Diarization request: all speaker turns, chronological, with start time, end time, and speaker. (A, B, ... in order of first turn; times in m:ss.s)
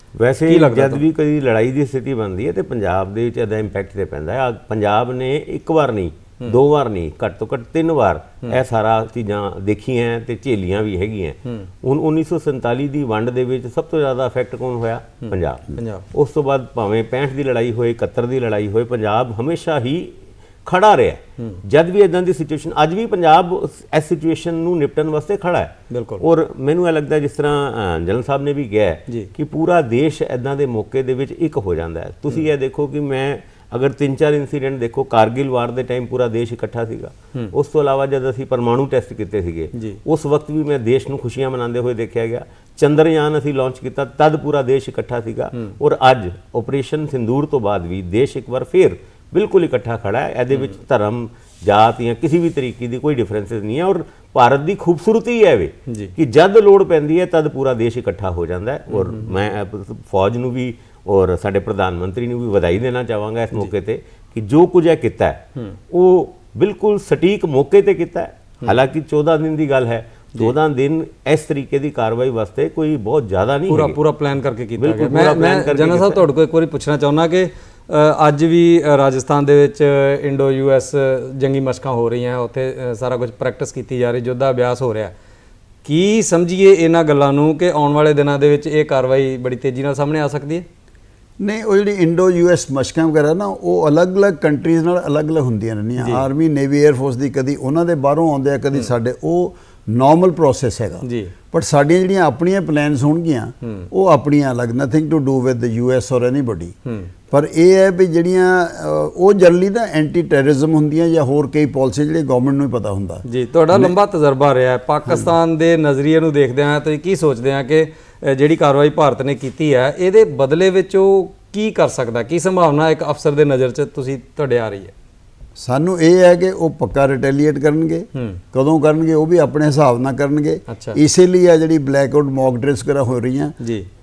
0:00.2-0:20.2 A
0:00.5-0:01.0 B
0:15.2-0:16.1 B
0:20.7-1:14.0 A
0:25.9-0:26.2 B
0:39.8-0:40.0 B
0:50.5-0:50.8 B
0:55.9-0:56.1 B
0:58.9-0:59.3 B
1:13.7-1:25.1 B
1:14.8-1:16.2 A
1:25.8-1:30.7 B
1:31.4-1:46.8 C
1:36.0-1:36.3 B
1:41.0-1:41.3 B
1:43.6-1:43.9 B
1:46.9-1:47.1 B
1:47.3-1:53.9 C
1:53.2-2:04.9 B
2:05.6-2:13.6 C
2:08.1-2:08.4 B
2:10.7-2:11.0 B
2:13.6-2:13.9 B